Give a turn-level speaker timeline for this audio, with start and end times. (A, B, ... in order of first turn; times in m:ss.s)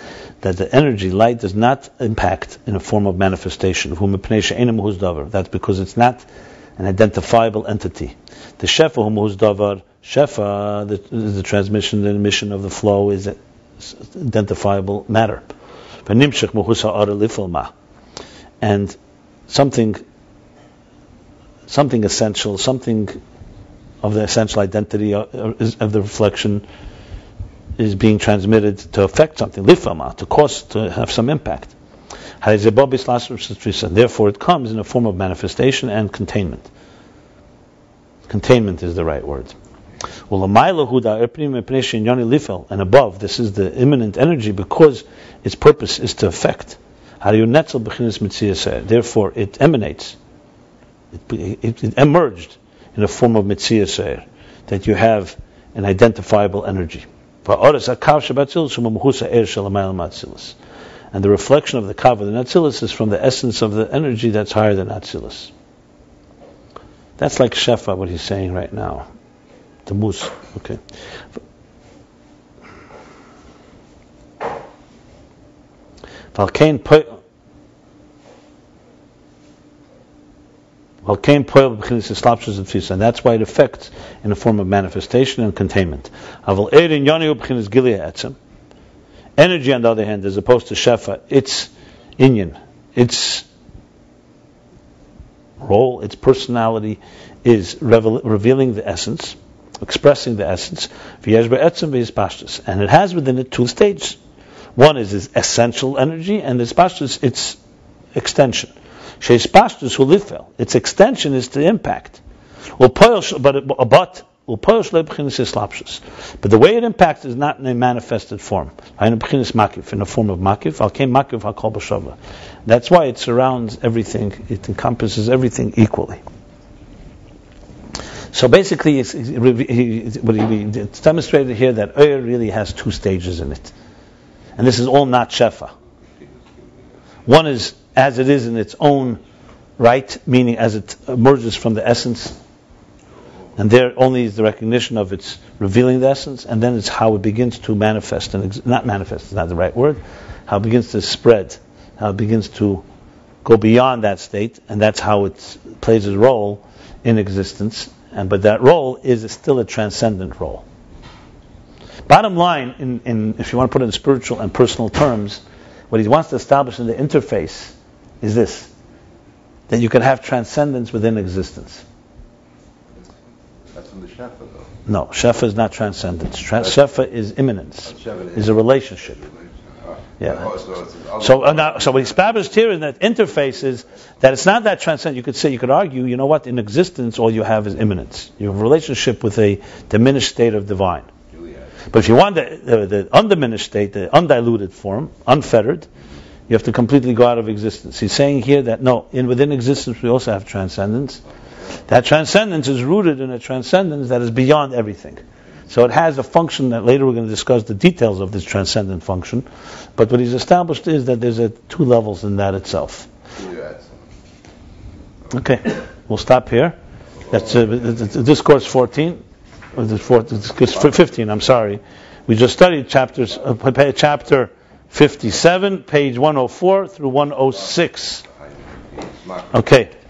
0:00.4-0:06.2 A
0:06.8-0:15.4 A
0:16.0-0:17.7 A
0:18.6-0:19.0 A
0:19.5-0:20.0 A
0:21.7-0:23.2 A
0:24.0-0:26.6 A
0:27.8-0:31.7 A
0:32.4-0:36.7 A
0:38.3-0:39.5 A
0:40.3-0:50.2 A
0:51.1-1:00.6 A
1:01.1-1:05.5 A
1:07.2-1:09.1 A
1:09.8-1:10.8 A
1:16.3-1:17.1 A
1:21.0-1:28.4 A
1:29.4-1:33.5 A
1:35.6-1:44.2 A
1:44.7-1:47.6 A
1:48.1-1:52.2 A
1:52.8-2:06.2 A
2:08.3-2:13.7 A
2:14.6-2:15.7 A
2:15.9-2:17.0 B
2:17.3-2:19.2 A
2:19.8-2:22.4 A
2:23.6-2:32.8 A
2:33.4-2:40.6 A
2:42.1-2:48.7 A
2:49.7-2:51.8 A
2:53.7-2:54.7 B
2:54.9-2:59.2 A
2:57.8-3:02.2 B
3:00.2-3:00.5 A
3:01.2-3:11.1 A
3:11.3-3:11.9 B
3:11.9-3:15.9 A
3:16.5-3:21.2 A
3:21.9-3:29.4 A
3:30.0-3:33.1 A
3:33.3-3:34.1 B
3:35.3-3:36.8 A
3:37.3-3:39.2 A
3:39.7-3:48.2 A
3:48.2-3:49.7 B
3:49.5-3:49.9 A